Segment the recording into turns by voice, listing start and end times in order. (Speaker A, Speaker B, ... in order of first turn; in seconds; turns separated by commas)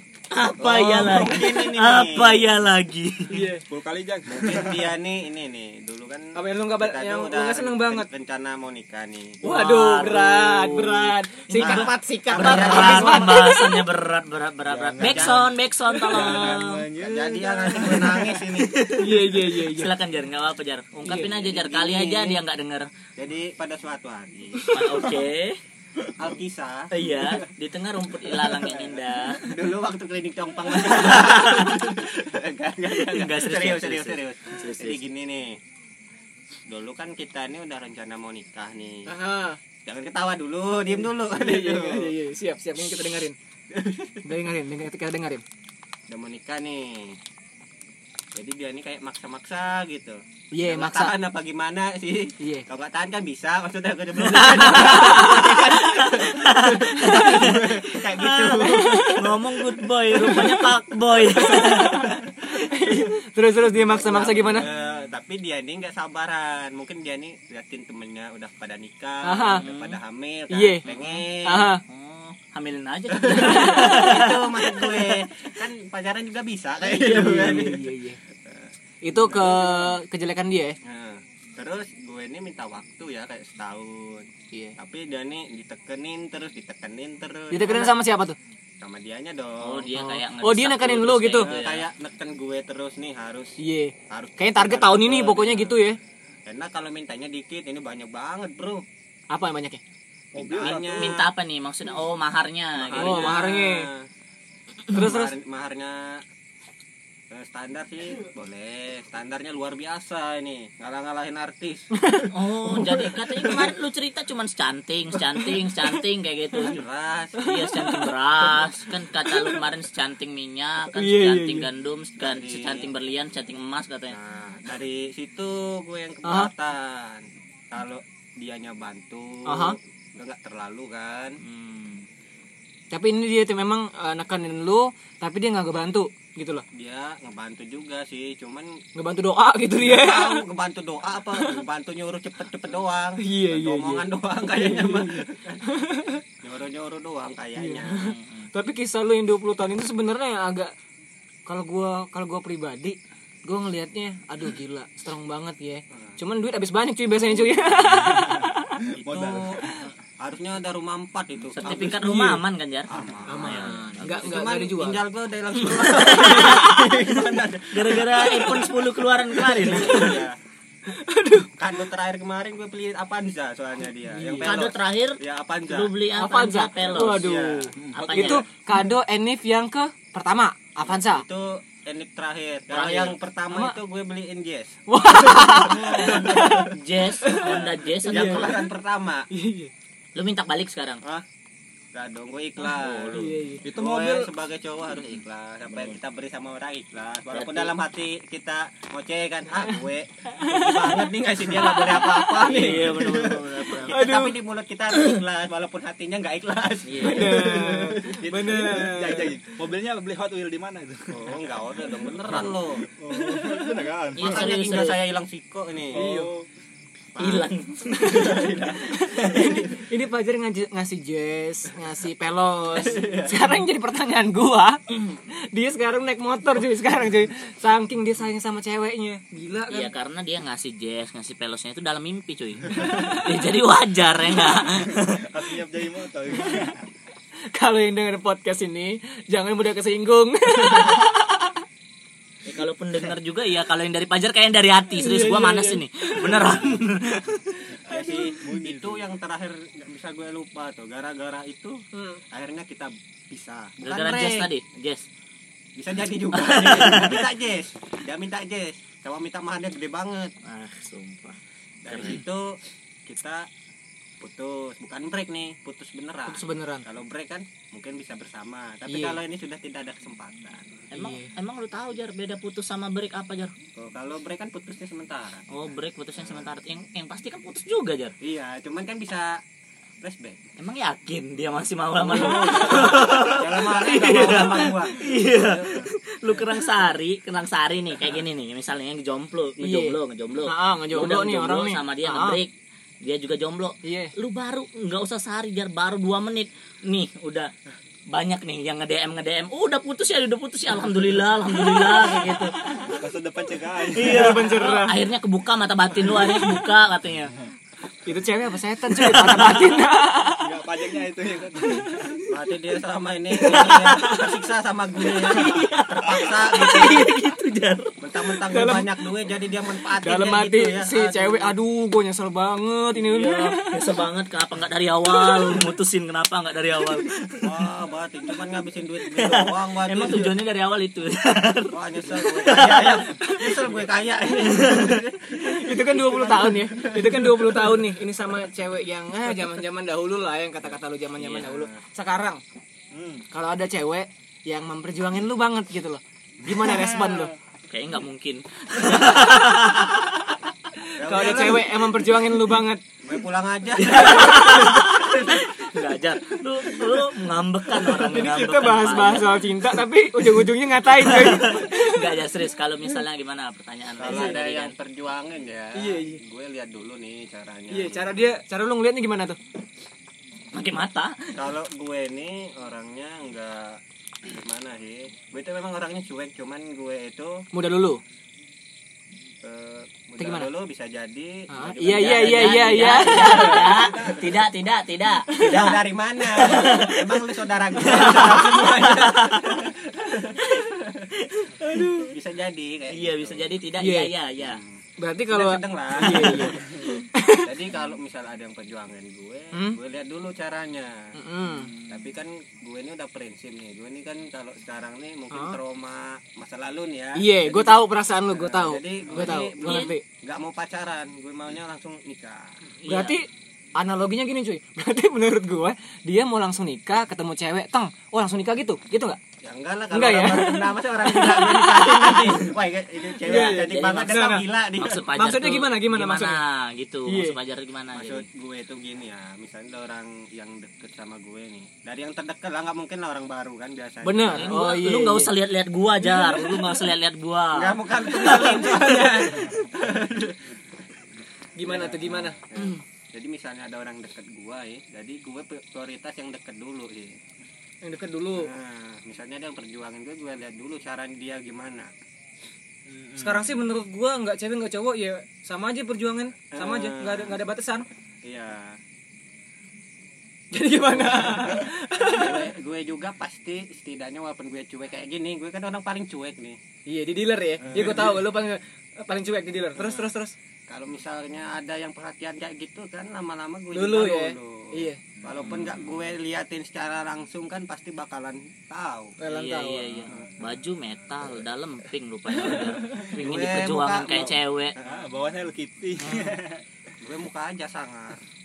Speaker A: 0.3-3.5, Speaker B: 0.6-2.5, Speaker C: 3.3-3.6, Speaker D: 3.7-4.9, Speaker B: 4.3-9.4, Speaker C: 6.3-8.1, Speaker C: 9.4-13.8, Speaker A: 9.4-16.9, Speaker B: 11.6-13.5, Speaker D: 14.7-15.5, Speaker B: 15.0-15.5, Speaker D: 16.0-18.4, Speaker B: 16.3-18.8, Speaker A: 18.1-22.9, Speaker C: 18.9-19.9, Speaker B: 21.1-22.4, Speaker B: 23.2-24.8, Speaker C: 24.6-25.1, Speaker A: 24.7-25.6, Speaker B: 26.2-27.3, Speaker A: 26.9-29.6, Speaker B: 28.5-35.6, Speaker A: 30.7-31.8, Speaker A: 32.9-35.0, Speaker B: 36.7-39.1, Speaker C: 39.1-39.6, Speaker B: 39.9-42.1, Speaker C: 41.3-43.4, Speaker B: 43.7-44.1, Speaker C: 44.2-45.4, Speaker B: 46.1-47.2, Speaker B: 48.4-59.2, Speaker C: 50.5-51.1, Speaker C: 52.4-52.7, Speaker C: 54.2-57.7, Speaker A: 54.6-62.1, Speaker C: 58.5-59.4, Speaker C: 60.1-60.7, Speaker C: 61.3-64.7, Speaker B: 63.7-71.7, Speaker C: 69.2-69.7, Speaker A: 69.5-70.0, Speaker C: 70.5-70.9, Speaker A: 70.8-71.3, Speaker C: 71.4-71.8, Speaker A: 71.8-75.2, Speaker B: 73.1-77.9, Speaker C: 73.3-74.1, Speaker C: 76.8-78.2, Speaker B: 78.4-80.0, Speaker C: 79.0-80.8, Speaker B: 80.8-88.0, Speaker C: 84.5-84.8, Speaker C: 87.5-88.4, Speaker B: 88.8-90.0, Speaker A: 89.6-91.9, Speaker C: 90.0-91.5, Speaker B: 91.4-93.6, Speaker C: 93.6-96.0, Speaker B: 94.1-95.8, Speaker B: 96.5-98.8, Speaker C: 99.3-99.8, Speaker D: 100.3-101.2, Speaker B: 100.3-101.3, Speaker A: 100.6-103.4, Speaker B: 102.8-104.1, Speaker C: 103.0-103.9, Speaker C: 104.9-105.3, Speaker B: 104.9-106.2, Speaker B: 107.3-111.9, Speaker C: 111.9-113.7, Speaker A: 112.3-116.8, Speaker C: 115.2-116.0, Speaker B: 116.6-117.5, Speaker A: 117.4-124.2, Speaker C: 117.4-118.7, Speaker C: 119.2-119.6, Speaker C: 120.9-121.7, Speaker B: 122.2-122.9, Speaker B: 124.1-131.4, Speaker C: 126.2-126.5, Speaker C: 129.5-129.8, Speaker A: 131.4-132.1, Speaker C: 132.9-136.7, Speaker B: 136.7-138.8, Speaker C: 139.0-140.4, Speaker B: 139.8-145.6, Speaker C: 141.4-141.6, Speaker C: 143.2-146.2, Speaker B: 146.4-148.1, Speaker C: 147.6-150.7, Speaker A: 148.0-148.5, Speaker C: 151.5-158.8, Speaker D: 158.1-159.7, Speaker B: 159.0-159.7, Speaker B: 160.2-168.7, Speaker A: 161.6-164.2, Speaker C: 161.9-162.2, Speaker C: 163.3-165.0, Speaker A: 165.6-170.2, Speaker C: 166.1-166.6, Speaker B: 169.4-170.4, Speaker C: 169.6-170.2, Speaker C: 170.9-171.5, Speaker B: 171.6-175.9, Speaker C: 174.1-174.6, Speaker A: 174.4-177.3, Speaker C: 176.2-181.2, Speaker B: 176.8-177.7, Speaker D: 177.8-178.3, Speaker A: 177.9-178.4, Speaker B: 180.8-186.8, Speaker A: 182.7-183.2, Speaker C: 183.5-183.8, Speaker C: 184.9-188.7, Speaker A: 185.7-188.6, Speaker B: 187.4-189.3, Speaker C: 189.3-189.7, Speaker A: 190.2-191.0, Speaker B: 191.9-208.0, Speaker A: 192.6-193.3, Speaker C: 193.1-193.7, Speaker D: 193.6-194.3, Speaker A: 195.7-196.0, Speaker A: 197.3-197.7, Speaker C: 200.4-201.0, Speaker A: 202.1-203.9, Speaker C: 203.9-204.4, Speaker A: 206.8-207.6, Speaker C: 207.0-209.5, Speaker D: 207.7-211.4, Speaker B: 211.1-212.9, Speaker D: 212.1-214.6, Speaker C: 213.1-213.8, Speaker A: 214.2-215.1, Speaker B: 214.2-216.1, Speaker D: 215.9-216.5, Speaker C: 215.9-216.3, Speaker B: 217.2-217.5, Speaker A: 217.2-218.8, Speaker C: 218.1-229.9, Speaker B: 218.1-219.6, Speaker B: 222.8-223.3, Speaker A: 229.7-235.3, Speaker C: 232.8-233.2, Speaker D: 234.9-236.8, Speaker C: 237.5-241.6, Speaker A: 242.4-247.5, Speaker C: 245.0-246.7, Speaker C: 247.7-248.3, Speaker B: 247.9-254.5, Speaker D: 248.4-249.1, Speaker C: 251.9-252.2, Speaker A: 253.8-255.1, Speaker B: 255.8-260.3, Speaker A: 256.3-257.2, Speaker A: 260.4-262.2, Speaker B: 261.9-263.5, Speaker B: 264.2-270.8, Speaker C: 266.3-266.9, Speaker C: 268.9-269.2, Speaker A: 270.9-273.5, Speaker C: 270.9-271.3, Speaker B: 273.8-276.5, Speaker A: 275.5-278.1, Speaker B: 278.2-279.4, Speaker B: 280.0-280.4, Speaker A: 280.6-292.5, Speaker B: 282.0-286.4, Speaker C: 289.6-292.4, Speaker A: 293.0-297.5, Speaker C: 293.8-294.1, Speaker A: 298.1-302.6, Speaker D: 302.8-304.4, Speaker A: 303.9-307.4, Speaker C: 304.0-305.0, Speaker C: 308.1-310.5, Speaker A: 309.0-309.7, Speaker D: 310.3-312.1, Speaker C: 311.6-312.2, Speaker B: 312.3-317.1, Speaker A: 313.4-314.3, Speaker A: 315.0-318.0, Speaker B: 318.0-321.5, Speaker C: 318.5-318.9, Speaker C: 320.0-323.9, Speaker A: 323.2-327.7, Speaker C: 325.1-325.6, Speaker B: 327.4-330.3, Speaker A: 329.1-333.2, Speaker B: 331.7-337.8, Speaker A: 334.4-335.0, Speaker C: 335.4-342.4, Speaker B: 341.2-341.8, Speaker D: 342.9-343.2, Speaker C: 343.3-347.3, Speaker A: 347.7-350.1, Speaker C: 348.9-349.6, Speaker C: 350.8-352.8, Speaker B: 351.0-352.1, Speaker B: 353.0-355.4, Speaker A: 353.8-359.6, Speaker C: 357.7-362.1, Speaker A: 361.0-364.7, Speaker B: 364.0-368.2, Speaker C: 364.1-364.4, Speaker C: 365.8-366.2, Speaker C: 367.7-369.4, Speaker A: 370.5-371.3, Speaker B: 371.3-377.5, Speaker C: 377.5-378.0, Speaker B: 379.4-384.4, Speaker C: 380.2-380.5, Speaker C: 381.5-383.9, Speaker A: 381.8-387.2, Speaker B: 385.3-391.1, Speaker A: 387.8-389.6, Speaker A: 391.2-391.9, Speaker C: 391.6-392.1, Speaker B: 392.1-393.5, Speaker A: 392.9-394.6, Speaker C: 393.8-394.1, Speaker B: 394.4-396.8, Speaker C: 395.0-397.5, Speaker B: 397.4-401.2, Speaker C: 399.5-399.8, Speaker C: 401.2-401.7, Speaker D: 401.6-402.0, Speaker B: 401.9-412.6, Speaker C: 405.3-405.6, Speaker C: 407.1-410.0, Speaker A: 409.6-409.9, Speaker A: 412.8-413.2, Speaker C: 412.9-419.2, Speaker B: 419.4-425.0, Speaker C: 419.9-422.4, Speaker C: 423.2-424.4, Speaker A: 423.3-428.2, Speaker C: 425.1-426.4, Speaker C: 427.1-427.4, Speaker B: 427.9-434.6, Speaker C: 434.0-435.3, Speaker A: 434.3-438.8, Speaker C: 436.1-436.7, Speaker B: 437.5-440.5, Speaker C: 438.2-439.5, Speaker C: 441.6-442.8, Speaker B: 441.6-447.2, Speaker C: 447.8-448.5, Speaker B: 448.4-451.9, Speaker D: 452.9-453.6, Speaker C: 453.2-457.9, Speaker B: 456.5-457.4, Speaker B: 458.2-458.8, Speaker C: 460.5-462.5, Speaker B: 461.0-466.6, Speaker C: 466.9-470.4, Speaker B: 467.6-468.2, Speaker B: 469.8-470.1, Speaker B: 470.7-479.2, Speaker C: 473.7-475.0, Speaker D: 475.4-475.7, Speaker C: 479.2-480.0, Speaker A: 479.3-484.8, Speaker C: 482.6-483.1, Speaker B: 483.0-485.1, Speaker D: 484.8-486.6, Speaker B: 487.0-488.2